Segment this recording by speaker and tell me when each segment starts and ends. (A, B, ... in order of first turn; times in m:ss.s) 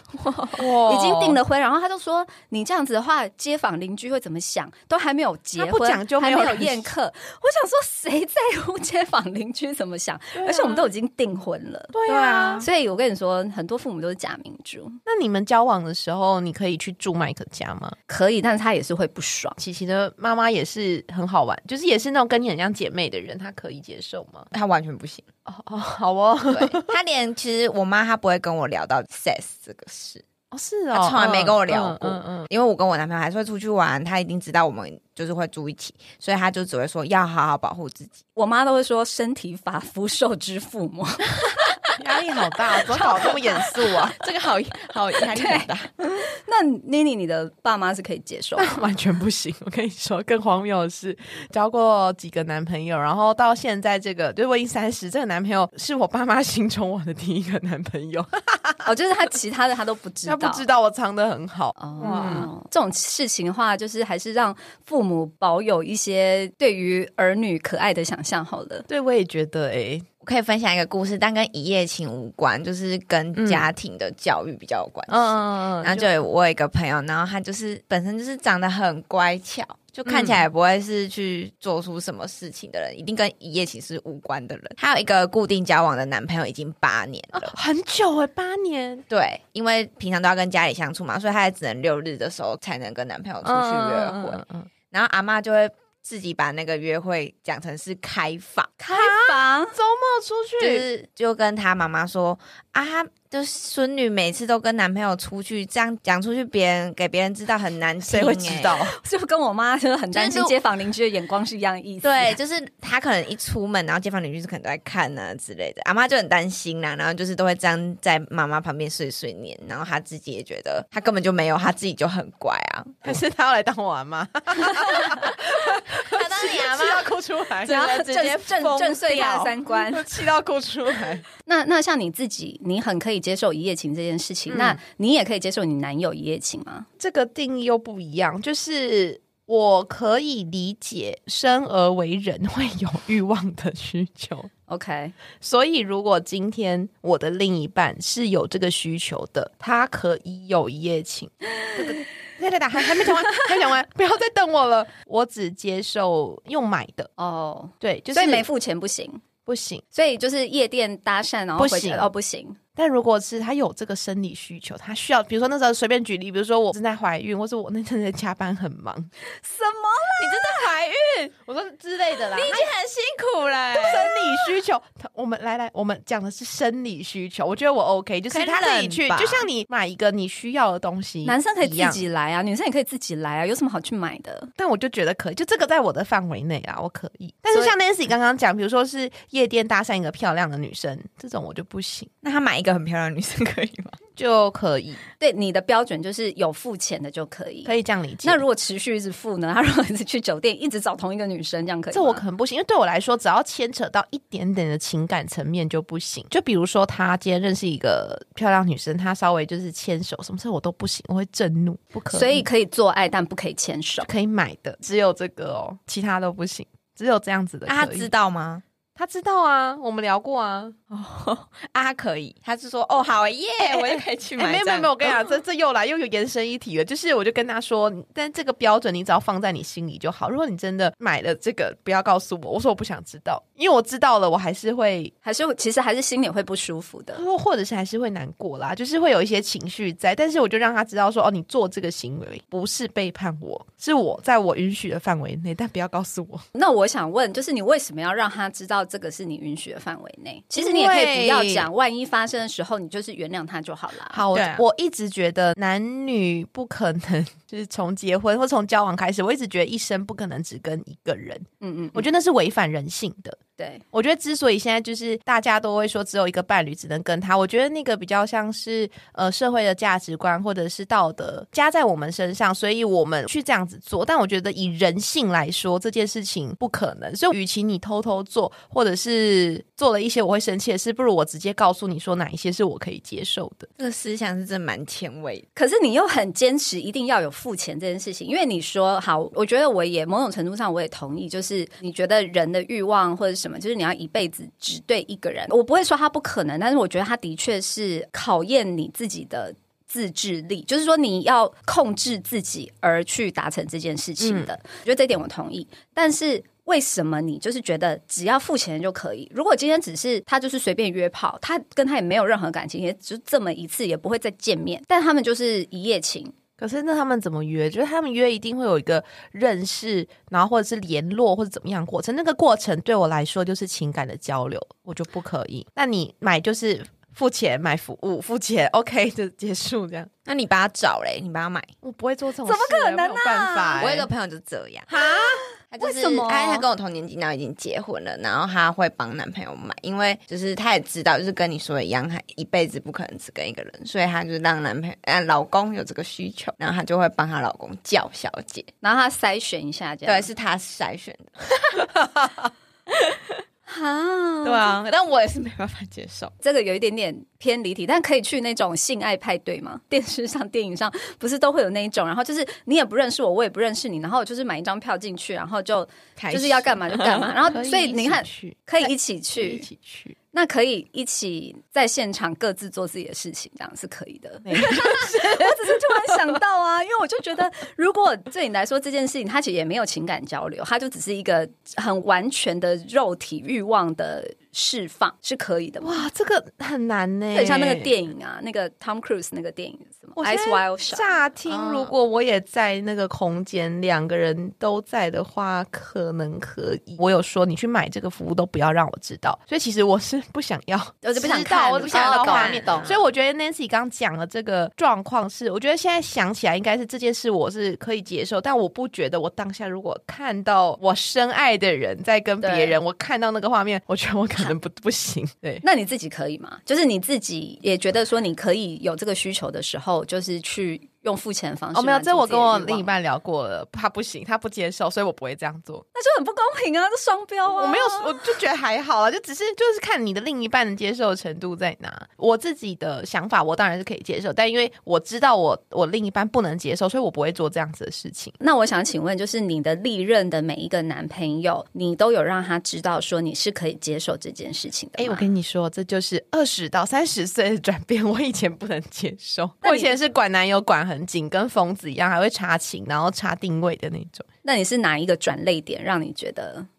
0:00.2-0:00.6 A
0:00.6-0:01.4 B
0:00.6-0:12.0 C
0:05.6-0:06.9 B
0:10.4-0:10.9 B
0:11.9-0:12.7 B
0:12.1-0:12.7 A
0:12.6-0:15.0 C
0:15.1-0:18.0 B
0:18.1-0:19.6 C
0:19.6-0:24.5 B
0:24.5-0:25.3 A
0:25.5-0:26.9 B
0:26.5-0:30.2 A
0:30.5-0:32.5 B
0:30.9-0:38.2 A
0:38.4-0:41.8 C
0:42.0-0:44.2 B
0:43.0-0:43.9 C
0:44.1-0:46.2 A
0:45.3-0:48.9 C
0:48.6-0:58.9 B
0:58.8-1:00.7 C
1:00.2-1:02.5 B
1:01.8-1:08.9 C
1:02.0-1:02.4 A
1:08.9-1:10.1 B
1:10.2-1:27.6 A
1:13.4-1:13.7 B
1:15.1-1:16.1 B
1:20.0-1:20.5 B
1:27.3-1:29.0 B
1:29.1-1:38.7 A
1:33.4-1:34.7 B
1:38.8-1:39.8 C
1:38.9-1:40.9 B
1:40.6-1:48.8 A
1:48.0-1:49.0 B
1:48.9-1:52.4 C
1:50.1-1:50.6 A
1:52.0-2:03.2 A
2:03.0-2:11.2 B
2:06.2-2:07.1 A
2:07.6-2:10.2 C
2:08.1-2:09.4 A
2:11.4-2:16.9 C
2:14.5-2:14.8 B
2:17.0-2:24.5 B
2:24.7-2:25.1 C
2:25.4-2:37.1 B
2:37.2-2:39.2 C
2:37.8-2:38.5 B
2:39.5-2:39.8 B
2:39.9-2:42.6 C
2:41.6-2:42.1 B
2:42.8-2:49.1 B
2:49.3-2:50.7 C
2:50.2-2:52.7 B
2:52.3-2:54.1 A
2:53.8-3:02.0 B
2:58.3-2:59.5 A
3:01.2-3:04.5 C
3:04.6-3:12.1 B
3:12.2-3:14.0 A
3:14.2-3:15.0 B
3:15.2-3:22.2 C
3:17.6-3:18.4 B
3:21.9-3:32.5 B
3:32.1-3:34.1 C
3:34.0-3:38.1 B
3:37.7-3:38.6 A
3:39.0-3:40.8 B
3:40.9-3:45.2 A
3:43.6-3:55.1 B
3:55.2-3:57.2 C
3:57.2-4:06.4 B
4:06.6-4:14.3 C
4:10.6-4:11.7 B
4:14.1-4:23.4 B
4:14.3-4:14.6 A
4:21.6-4:22.1 C
4:23.6-4:23.8 C
4:23.9-4:43.7 B
4:43.8-4:45.4 A
4:45.6-5:16.3 C
5:04.2-5:04.5 B
5:16.6-5:30.1 B
5:30.3-5:31.7 A
5:31.8-5:34.1 B
5:32.4-5:34.0 C
5:33.8-5:34.9 A
5:34.9-5:35.4 B
5:35.2-5:36.7 C
5:35.7-5:48.7 A
5:48.8-5:50.3 C
5:50.0-5:52.0 A
5:53.7-5:54.8 C
5:54.4-5:56.3 A
5:56.4-6:09.7 C
6:06.2-6:07.3 A
6:07.4-6:08.6 B
6:09.4-6:10.2 B
6:10.3-6:26.1 C
6:14.4-6:16.3 B
6:25.8-6:27.9 B
6:27.3-6:31.9 C
6:30.2-6:55.6 B
6:41.0-6:43.0 C
6:41.8-6:43.0 A
6:52.4-6:52.8 C
6:55.6-7:02.9 C
7:01.7-7:05.8 B
7:05.9-7:08.4 C
7:07.5-7:18.4 B
7:18.4-7:25.3 C
7:25.0-7:34.3 B
7:29.6-7:30.0 C
7:34.4-7:36.7 C